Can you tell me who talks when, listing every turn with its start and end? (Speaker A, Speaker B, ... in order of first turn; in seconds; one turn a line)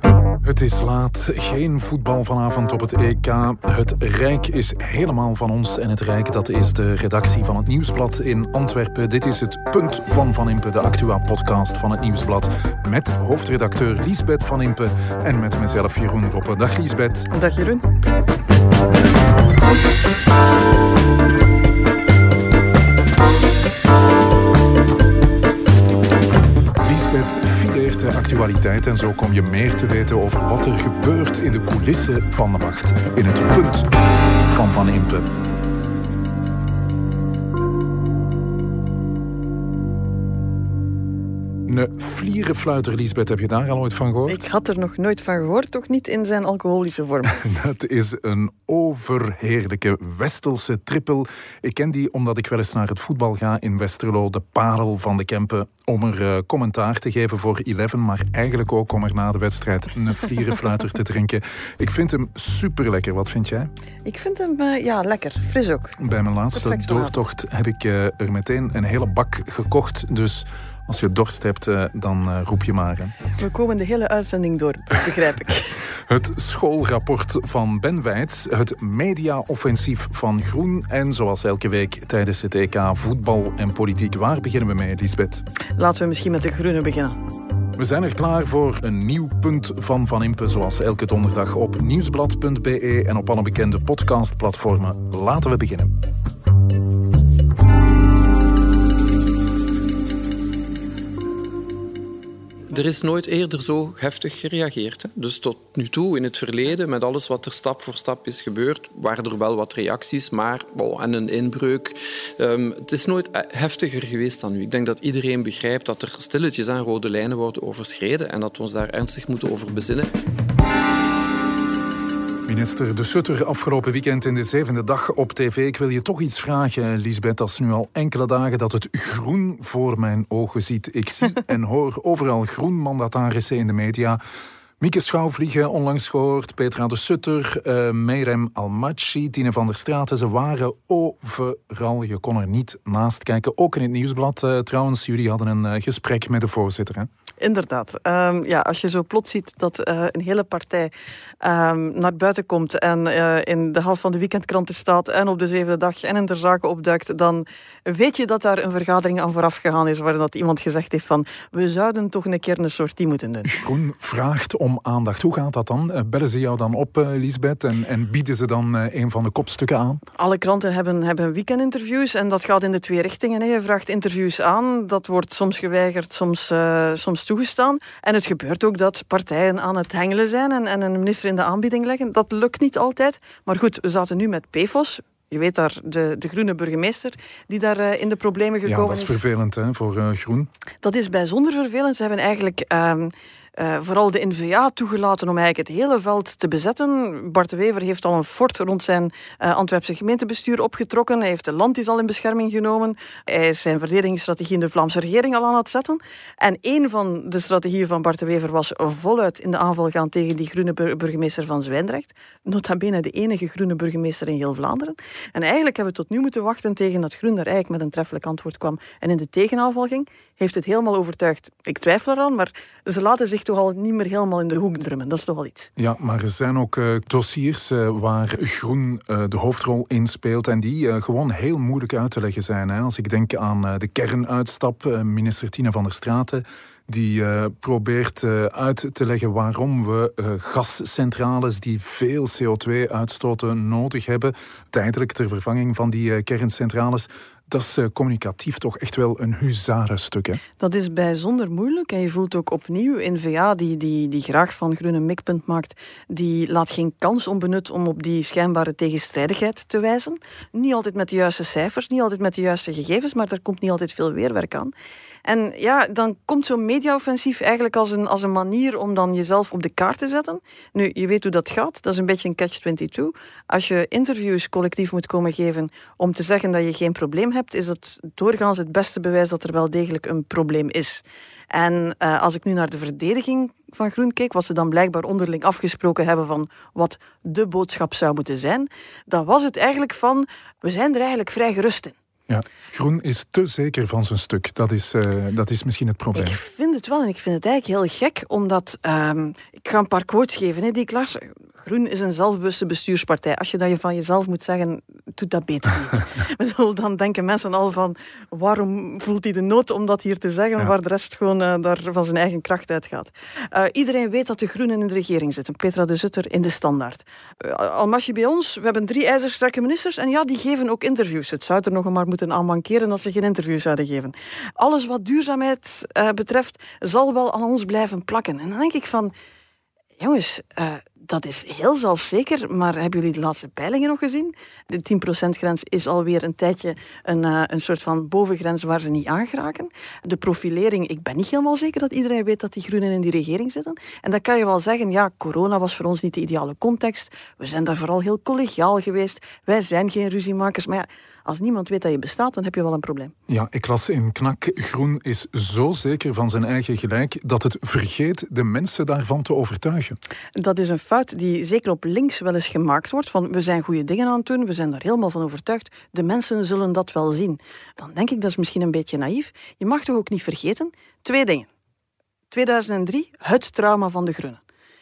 Speaker A: 0.4-17.3
Speaker B: 17.3-17.9
Speaker A: 26.8-34.0
Speaker A: 34.5-35.3
Speaker A: 41.6-44.4
Speaker B: 44.3-47.4
Speaker A: 47.3-63.7
Speaker B: 64.0-66.0
Speaker A: 66.0-73.2
Speaker B: 66.5-67.2
Speaker B: 73.4-75.8
Speaker A: 76.1-85.5
Speaker B: 85.8-87.2
Speaker A: 87.8-95.9
Speaker C: 102.7-120.1
Speaker A: 122.5-134.2
Speaker A: 134.8-147.1
Speaker B: 147.4-163.5
Speaker A: 163.4-170.0
Speaker B: 170.2-189.2
Speaker A: 188.7-190.5
Speaker B: 190.8-225.7
Speaker A: 225.8-250.4
Speaker B: 250.6-264.7
Speaker B: 265.2-291.9
Speaker A: 292.3-296.4
Speaker B: 296.1-329.1
Speaker B: 330.0-353.1
Speaker A: 353.3-360.0
Speaker B: 360.4-371.5
Speaker B: 372.3-374.4